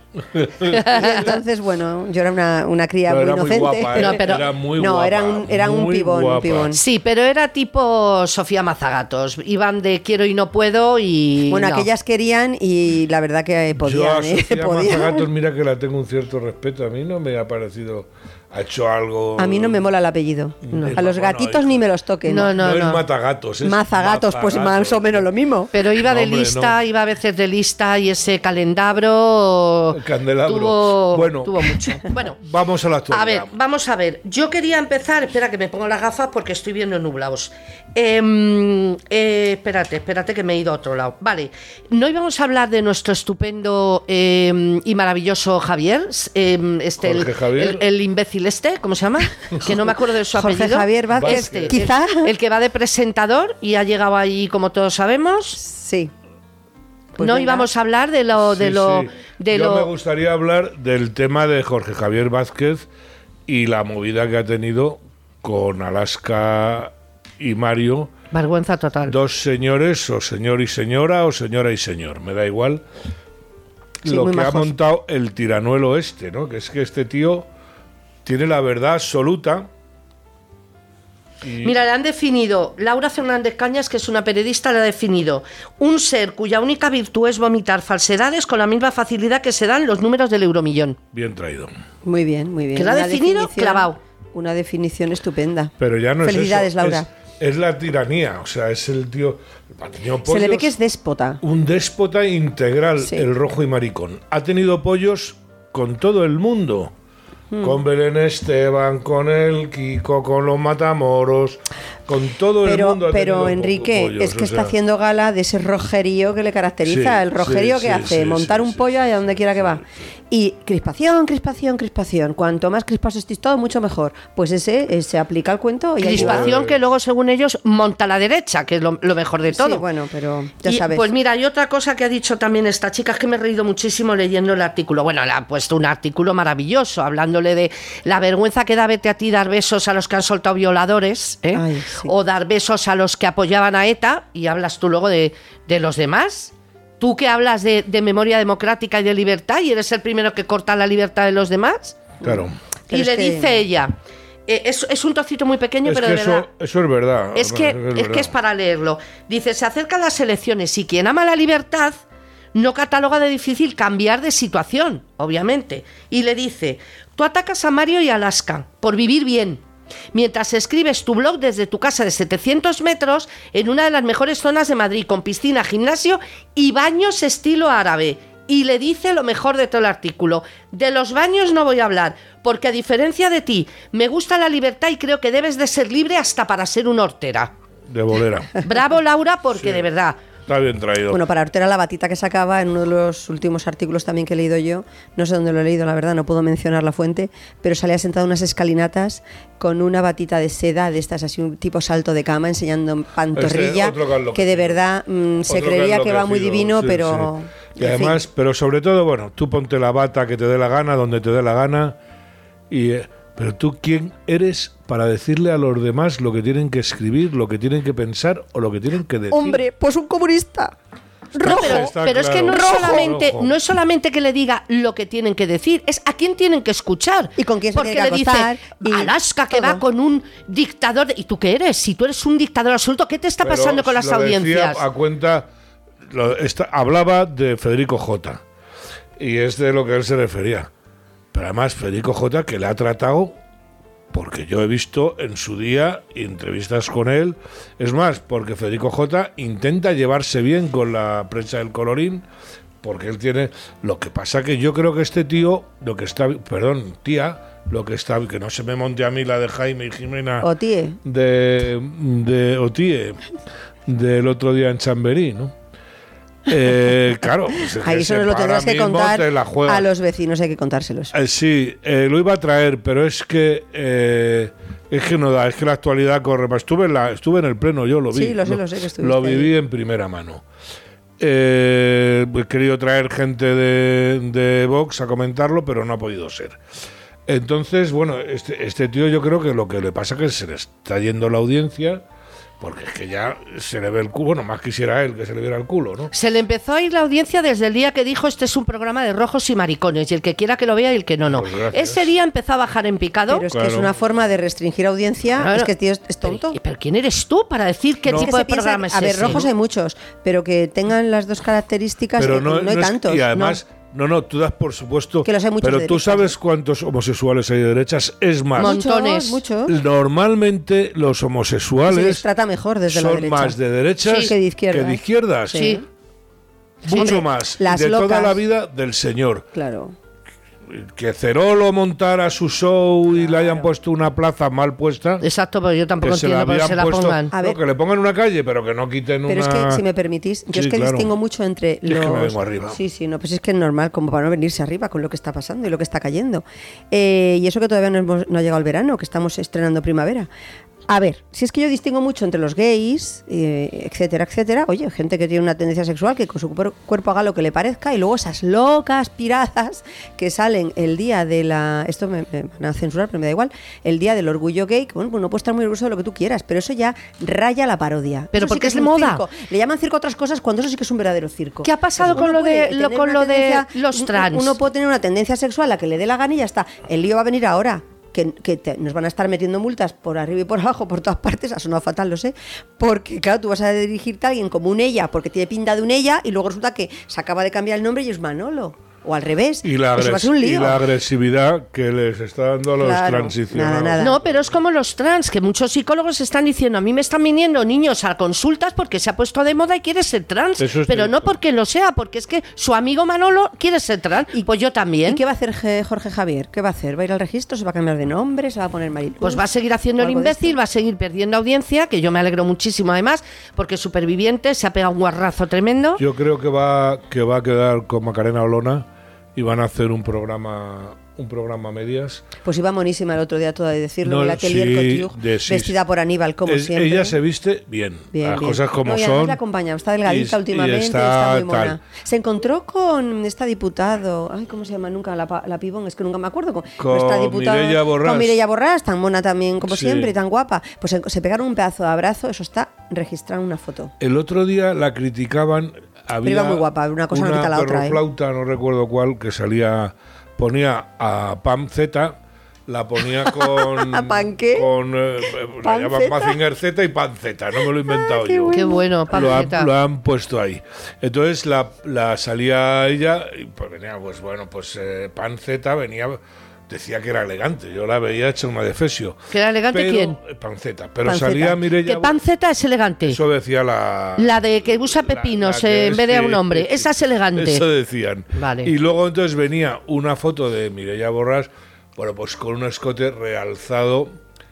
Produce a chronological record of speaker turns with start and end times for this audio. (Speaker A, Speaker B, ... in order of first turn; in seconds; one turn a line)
Speaker A: 0.2-1.1
Speaker B: 0.7-1.3
Speaker C: 0.7-6.8
Speaker A: 3.1-6.7
Speaker B: 3.9-4.4
Speaker B: 6.7-11.9
Speaker C: 11.5-15.2
Speaker A: 13.8-19.8
Speaker C: 19.4-22.7
Speaker A: 20.6-21.8
Speaker B: 20.7-21.0
Speaker B: 22.2-23.0
Speaker A: 22.5-25.3
Speaker C: 23.6-25.7
Speaker B: 25.7-32.4
Speaker A: 25.8-26.8
Speaker A: 29.9-33.5
Speaker B: 33.1-55.6
Speaker A: 47.0-47.9
Speaker C: 50.3-52.3
Speaker A: 51.1-51.9
Speaker C: 55.6-56.1
Speaker C: 57.2-57.7
Speaker B: 57.2-59.9
Speaker A: 58.4-62.9
Speaker A: 63.5-68.1
Speaker B: 68.3-69.2
Speaker A: 69.0-72.8
Speaker A: 74.0-77.5
Speaker C: 74.0-74.7
Speaker A: 78.2-79.7
Speaker A: 81.4-81.8
Speaker B: 81.6-91.0
Speaker A: 91.1-91.7
Speaker C: 92.0-97.1
Speaker B: 92.7-94.0
Speaker A: 95.8-100.7
Speaker C: 100.2-101.4
Speaker A: 101.4-106.9
Speaker C: 107.5-107.8
Speaker A: 107.6-114.8
Speaker C: 112.6-126.5
Speaker A: 116.8-119.8
Speaker B: 126.0-129.8
Speaker A: 126.1-126.8
Speaker C: 129.5-131.1
Speaker B: 130.6-152.0
Speaker C: 141.5-142.1
Speaker A: 152.2-152.6
Speaker C: 152.2-153.6
Speaker B: 152.9-153.9
Speaker B: 154.5-156.5
Speaker A: 155.8-158.3
Speaker B: 157.3-162.0
Speaker B: 162.5-169.6
Speaker B: 170.1-187.5
Speaker A: 187.9-188.6
Speaker B: 188.6-190.2
Speaker A: 189.6-189.8
Speaker A: 190.4-191.2
Speaker C: 191.1-208.2
Speaker A: 203.3-204.8
Speaker A: 205.5-212.0
Speaker A: 212.7-219.6
Speaker C: 219.3-220.7
Speaker C: 221.3-221.9
Speaker A: 221.4-223.6
Speaker B: 221.4-234.8
Speaker C: 222.5-223.1
Speaker C: 227.4-229.8
Speaker A: 233.4-235.5
Speaker A: 236.1-238.4
Speaker A: 239.2-240.7
Speaker A: 241.3-243.3
Speaker A: 244.1-252.2
Speaker A: 252.8-260.5
Speaker C: 260.4-261.0
Speaker A: 261.0-263.2
Speaker A: 263.9-265.5
Speaker A: 266.5-269.9
Speaker C: 267.8-271.1
Speaker A: 271.1-280.4
Speaker C: 278.1-279.5
Speaker A: 281.2-286.6
Speaker A: 287.2-292.0
Speaker A: 292.6-296.1
Speaker B: 296.1-303.4
Speaker A: 301.3-302.0
Speaker C: 303.3-306.6
Speaker A: 303.5-303.9
Speaker B: 305.4-305.7
Speaker B: 306.2-309.5
Speaker C: 308.1-313.6
Speaker A: 312.2-318.8
Speaker C: 315.2-316.4
Speaker B: 318.6-319.4
Speaker C: 318.6-319.7
Speaker A: 319.7-322.2
Speaker C: 321.9-323.6
Speaker A: 322.9-325.7
Speaker B: 324.0-324.3
Speaker C: 324.1-325.8
Speaker B: 325.5-325.8
Speaker A: 326.8-329.5
Speaker C: 326.9-328.4
Speaker B: 326.9-327.2
Speaker C: 329.5-329.9
Speaker A: 330.7-335.2
Speaker C: 333.1-333.7
Speaker B: 335.2-337.3
Speaker A: 336.0-339.8
Speaker C: 337.3-337.6
Speaker C: 339.3-350.3
Speaker A: 340.5-341.1
Speaker A: 341.9-342.8
Speaker C: 350.9-390.8
Speaker B: 368.3-369.2
Speaker B: 371.6-374.6
Speaker A: 389.6-394.4
Speaker C: 392.8-394.2
Speaker B: 394.0-405.2
Speaker A: 400.6-401.3
Speaker C: 405.0-409.4
Speaker B: 409.2-416.0
Speaker C: 410.0-410.6
Speaker A: 416.0-422.2
Speaker C: 422.4-427.2
Speaker A: 424.0-425.7
Speaker A: 426.4-429.4
Speaker C: 428.1-443.9
Speaker A: 430.0-431.8
Speaker A: 436.8-438.4
Speaker A: 439.7-440.1
Speaker A: 444.0-472.2
Speaker C: 446.2-448.0
Speaker C: 453.2-454.7
Speaker C: 455.6-456.4
Speaker C: 457.9-459.4
Speaker B: 458.5-459.7
Speaker B: 469.3-470.2
Speaker C: 471.0-471.6
Speaker B: 471.8-473.2
Speaker A: 473.1-484.1
Speaker B: 474.2-477.6
Speaker B: 478.3-478.7